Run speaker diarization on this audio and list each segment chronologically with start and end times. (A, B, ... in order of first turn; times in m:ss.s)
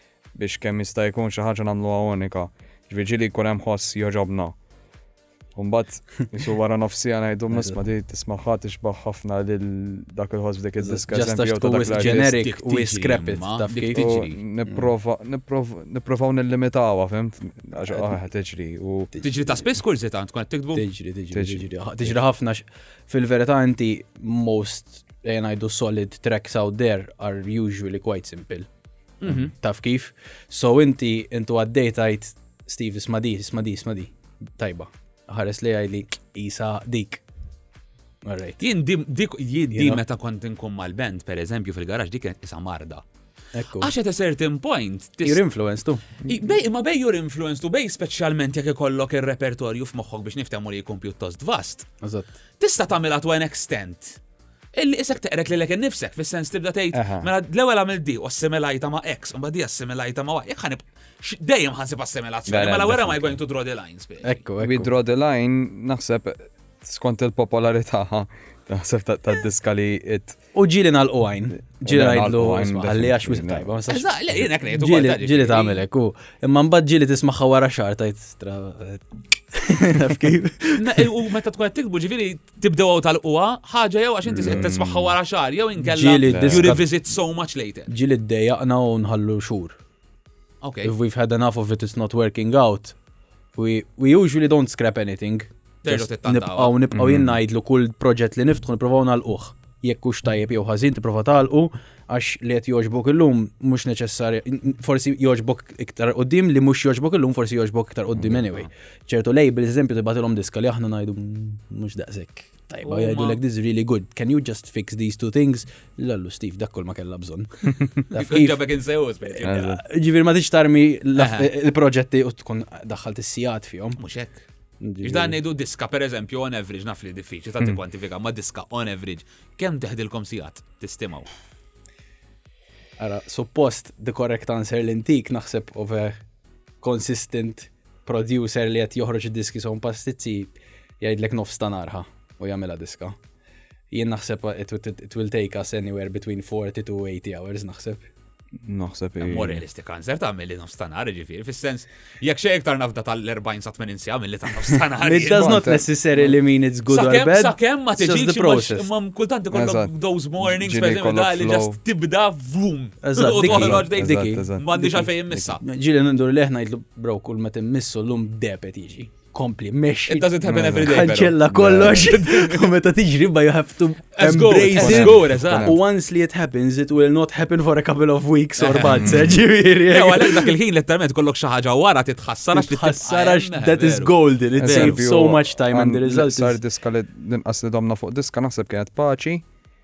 0:00.4-0:04.6 A
0:05.6-0:12.3 A
0:07.5-0:07.8 B
0:10.8-0:14.1 B
0:11.9-0:14.4 C
0:13.9-0:19.1 A
0:19.2-0:20.8 C
0:20.7-0:28.7 B
0:21.3-0:22.2 A
0:29.2-0:29.5 C
0:29.3-0:37.2 B
0:38.2-0:38.6 B
0:38.6-0:43.0 C
0:39.7-0:40.0 B
0:43.5-0:43.9 B
0:43.8-0:45.4 C
0:45.2-0:46.0 B
0:46.2-0:51.9 C
0:52.0-0:52.3 B
0:52.6-0:54.2 C
0:54.8-1:04.4 C
0:56.9-0:57.3 A
1:02.5-1:03.4 A
1:04.2-1:04.9 B
1:04.6-1:10.4 A
1:10.6-1:21.1 B
1:11.8-1:13.7 A
1:13.9-1:15.8 C
1:20.8-1:27.9 C
1:24.3-1:25.2 A
1:25.8-1:26.8 B
1:26.3-1:26.8 A
1:27.9-1:29.8 B
1:30.6-1:30.9 C
1:30.8-1:33.0 B
1:33.6-1:58.6 B
1:35.8-1:36.8 C
1:36.9-1:37.4 A
1:52.8-1:53.4 C
1:58.1-1:59.6 C
1:59.2-2:04.0 B
1:59.4-1:59.8 A
2:01.2-2:01.5 C
2:04.0-2:04.4 C
2:04.8-2:05.4 B
2:05.0-2:11.3 C
2:13.0-2:16.2 B
2:16.8-2:23.2 B
2:23.9-2:28.1 B
2:28.6-2:29.6 A
2:29.2-2:35.6 C
2:35.0-2:38.9 B
2:35.3-2:35.9 A
2:36.9-2:45.6 C
2:39.5-2:41.8 A
2:43.0-3:00.5 B
2:43.4-2:44.7 A
2:50.1-2:52.7 C
2:50.4-2:52.2 A
2:54.2-2:55.7 C
2:54.7-2:55.8 A
2:58.6-3:05.0 C
2:58.9-2:59.4 A
3:02.5-3:06.6 B
3:04.6-3:09.4 A